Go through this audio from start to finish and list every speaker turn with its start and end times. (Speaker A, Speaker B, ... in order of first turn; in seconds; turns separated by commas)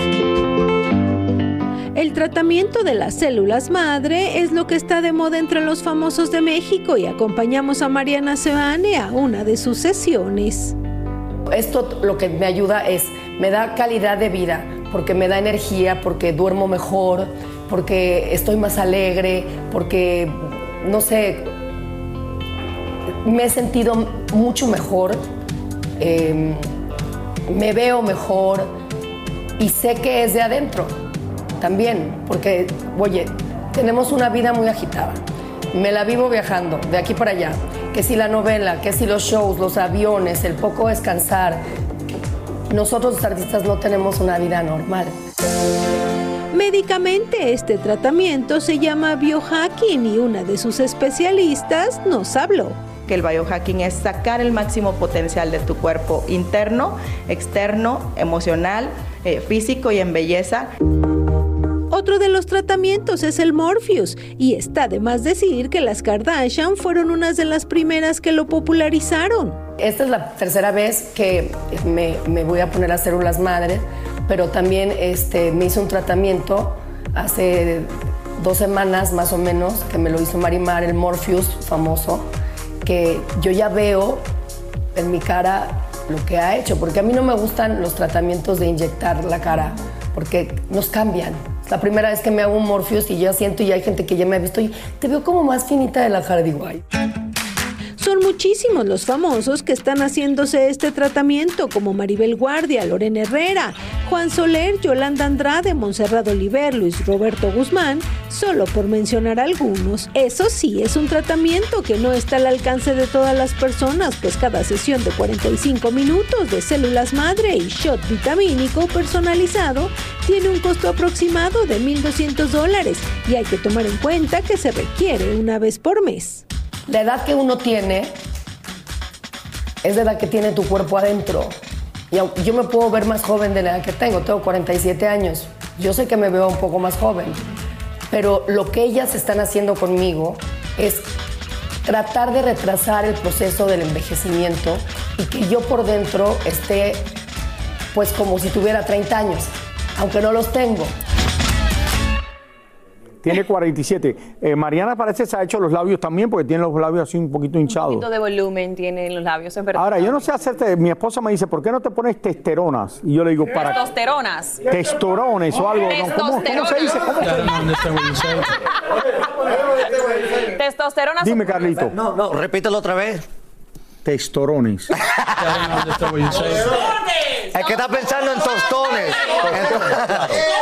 Speaker A: 1.9-10.8, Speaker B: 11.5-21.4, Speaker B: 23.2-25.2, Speaker B: 26.0-26.6, Speaker B: 27.5-28.7, Speaker B: 29.6-30.9, Speaker B: 31.6-35.2, Speaker B: 35.7-41.6, Speaker B: 42.7-45.1, Speaker A: 46.5-52.8, Speaker C: 53.0-60.7, Speaker A: 61.9-69.6, Speaker B: 69.8-82.2, Speaker B: 82.8-84.2, Speaker B: 84.9-96.8, Speaker A: 98.0-126.4, Speaker B: 126.9-128.1, Speaker B: 129.8-131.6, Speaker B: 132.1-137.4, Speaker B: 138.1-141.1, Speaker B: 141.8-147.1, Speaker B: 147.9-150.9, Speaker D: 153.2-158.1, Speaker E: 157.7-160.3, Speaker D: 159.7-163.8, Speaker E: 163.5-164.6, Speaker D: 164.6-167.7, Speaker E: 165.7-167.3, Speaker E: 170.4-171.8, Speaker D: 171.2-172.0, Speaker F: 171.9-173.2, Speaker D: 174.0-174.9, Speaker F: 175.2-175.8, Speaker F: 177.5-180.4